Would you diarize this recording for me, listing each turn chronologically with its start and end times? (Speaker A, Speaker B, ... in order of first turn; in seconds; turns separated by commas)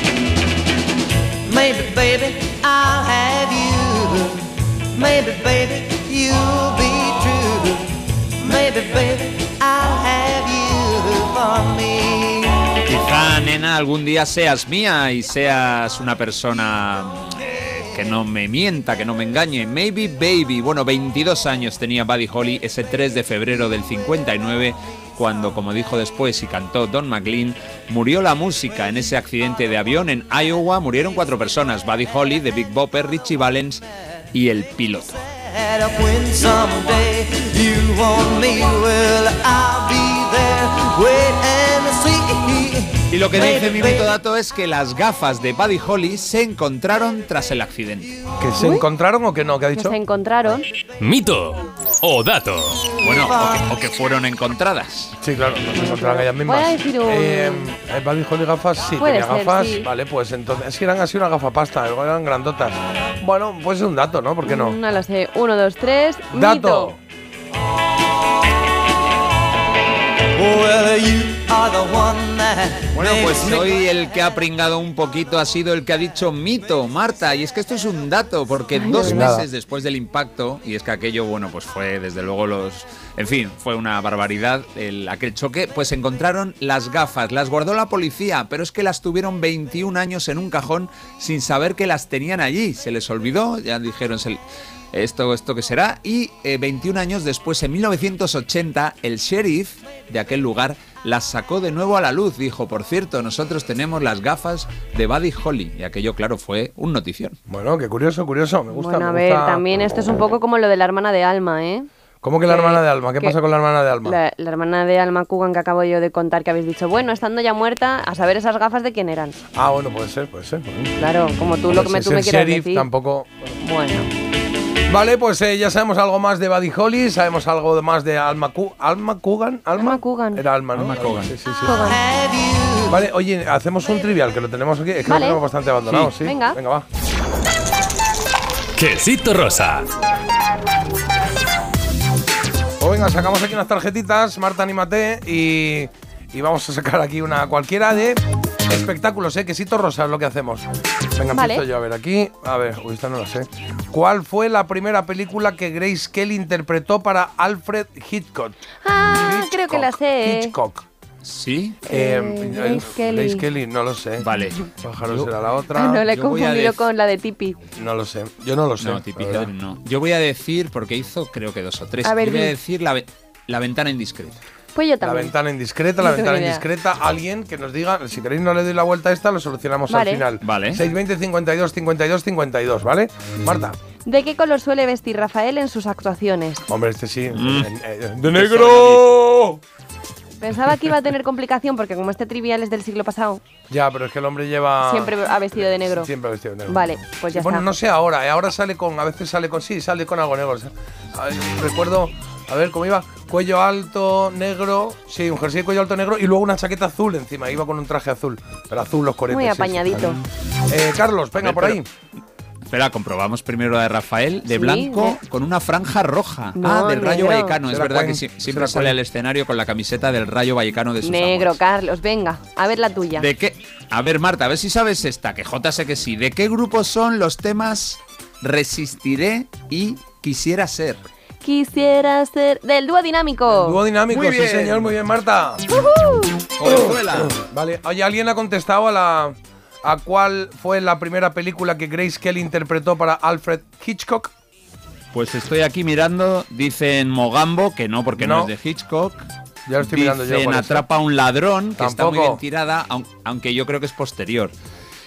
Speaker A: 1.4-12.7, Speaker B: 12.8-35.2, Speaker A: 35.5-44.1, Speaker B: 43.0-48.2, Speaker C: 48.4-50.0, Speaker D: 48.6-48.9, Speaker D: 49.8-50.7, Speaker E: 51.0-52.9, Speaker B: 53.0-55.2, Speaker C: 55.2-64.8, Speaker D: 55.7-57.7, Speaker D: 59.0-59.9, Speaker D: 64.4-66.9, Speaker C: 66.3-67.0, Speaker A: 70.3-73.7, Speaker B: 72.9-107.4, Speaker D: 78.8-79.2, Speaker C: 79.0-79.5, Speaker C: 107.5-109.7, Speaker D: 108.7-111.9, Speaker C: 112.2-114.2, Speaker D: 112.5-113.4, Speaker D: 114.0-119.4, Speaker C: 119.5-121.0, Speaker D: 121.0-122.9, Speaker C: 121.7-123.4, Speaker D: 123.6-124.1, Speaker C: 124.9-131.8, Speaker D: 129.8-130.4, Speaker B: 130.7-131.3, Speaker D: 131.6-132.1, Speaker A: 131.9-132.9, Speaker C: 132.9-136.9, Speaker D: 135.1-135.4, Speaker B: 135.9-136.1, Speaker D: 136.2-136.6, Speaker E: 138.8-139.9, Speaker C: 142.8-158.6, Speaker D: 151.3-151.6, Speaker D: 158.8-160.6, Speaker C: 159.1-160.9, Speaker B: 161.2-161.8, Speaker D: 161.8-163.5, Speaker C: 161.9-166.0, Speaker B: 164.2-165.3, Speaker D: 165.7-167.6, Speaker B: 166.1-166.9, Speaker C: 167.8-169.5, Speaker B: 168.8-174.4, Speaker D: 172.0-172.6, Speaker D: 174.7-175.3, Speaker C: 175.0-183.8, Speaker D: 176.0-176.7, Speaker D: 179.9-180.3, Speaker B: 180.4-180.8, Speaker D: 184.1-186.6, Speaker C: 186.7-189.6, Speaker B: 187.3-187.7, Speaker B: 188.3-189.2, Speaker D: 190.4-193.4, Speaker C: 193.7-211.9, Speaker D: 194.9-196.1, Speaker D: 196.7-197.7, Speaker D: 209.3-210.2, Speaker B: 211.3-211.8, Speaker B: 212.7-221.6, Speaker D: 214.5-215.2, Speaker D: 216.6-217.6, Speaker C: 217.6-219.0, Speaker D: 221.0-223.3, Speaker B: 223.2-231.0, Speaker D: 231.4-233.8, Speaker C: 233.5-235.7, Speaker B: 234.1-234.9, Speaker D: 235.9-236.3, Speaker B: 236.6-237.3, Speaker C: 236.6-244.3, Speaker B: 245.1-249.3, Speaker C: 248.2-248.5, Speaker C: 249.7-250.8, Speaker B: 249.8-254.5, Speaker C: 251.8-252.4